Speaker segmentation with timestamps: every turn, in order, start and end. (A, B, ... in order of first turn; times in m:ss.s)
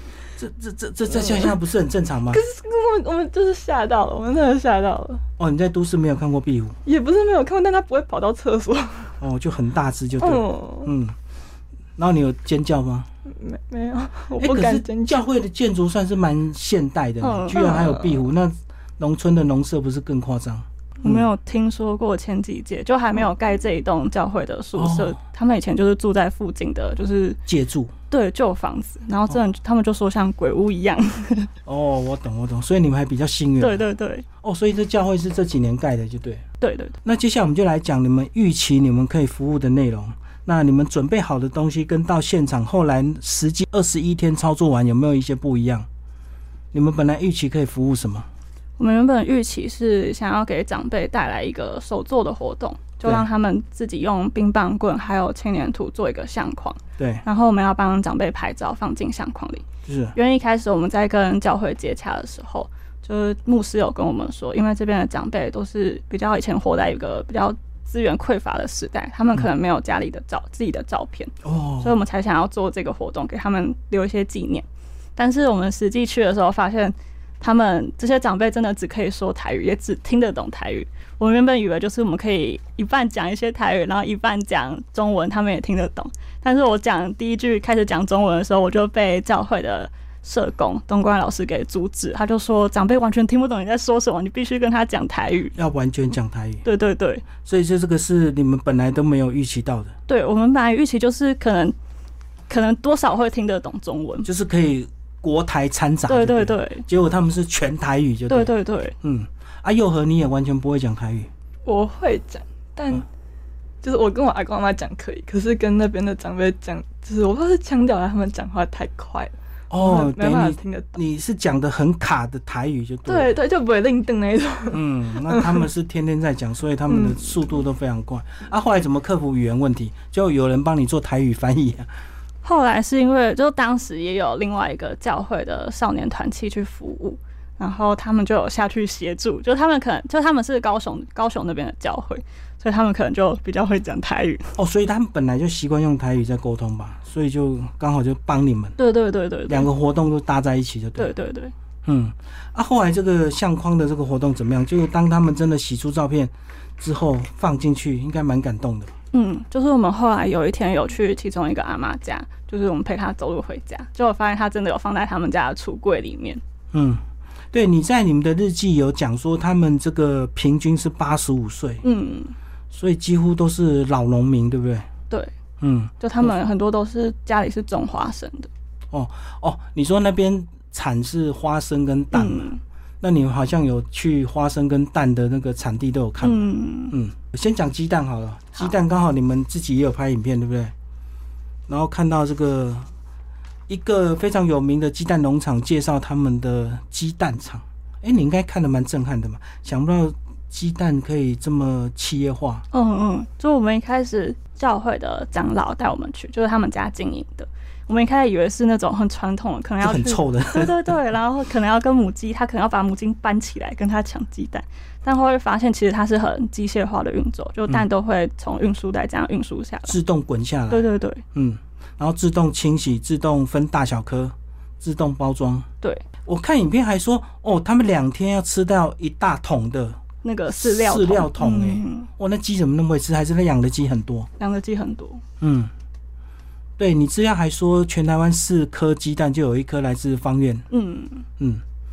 0:00.4-0:02.4 A
0:02.3-0:05.2 B
0:05.4-0:06.8 A
0:06.9-0:09.1 B
0:09.2-0:11.2 A
0:10.2-0:10.9 B
0:12.0-0:13.1 A
0:13.3-0:15.2 B
0:14.4-0:21.3 A
0:17.2-0:17.9 C
0:17.6-0:17.9 B
0:21.0-0:27.4 C
0:24.8-0:25.2 A
0:27.5-0:27.9 A
0:28.1-0:31.5 C
0:31.7-0:33.8 A
0:33.6-0:34.2 C
0:34.4-0:36.4 A
0:36.6-0:37.0 C
0:37.0-0:45.9 A
0:46.7-0:48.3 A
0:48.8-0:59.6 C
0:57.0-0:57.2 A
0:59.9-1:00.2 A
1:00.2-1:14.7 C
1:11.4-1:12.0 A
1:15.2-1:35.5 C
1:35.6-1:36.6 A
1:36.6-1:37.3 C
1:37.4-1:39.9 A
1:40.1-1:41.8 C
1:42.5-1:44.3 C
1:44.2-1:51.3 A
1:46.1-1:46.9 C
1:48.3-1:49.0 C
1:51.7-1:53.0 B
1:53.8-2:01.0 B
1:59.7-2:03.3 A
2:03.1-2:05.7 B
2:04.7-2:11.9 A
2:06.9-2:07.4 B
2:12.4-2:24.6 C
2:24.6-2:28.8 A
2:28.8-2:29.7 C
2:29.5-2:31.1 A
2:31.0-2:31.5 C
2:31.9-2:38.9 A
2:39.1-2:46.4 C
2:46.7-2:51.8 A
2:51.8-2:52.4 C
2:52.7-2:54.9 A
2:55.6-2:56.3 A
2:56.0-2:58.5 C
2:58.9-3:02.5 A
3:02.1-3:02.6 C
3:03.0-3:10.7 A
3:06.2-3:06.9 C
3:11.7-3:12.9 A
3:13.7-3:22.6 A
3:22.7-3:40.0 C
3:29.8-3:30.8 A
3:39.9-3:45.7 A
3:40.7-3:41.2 C
3:46.2-3:54.3 A
3:50.2-3:52.1 C
3:54.4-3:55.2 C
3:55.4-3:55.7 A
3:56.8-4:00.6 A
4:00.7-4:01.3 C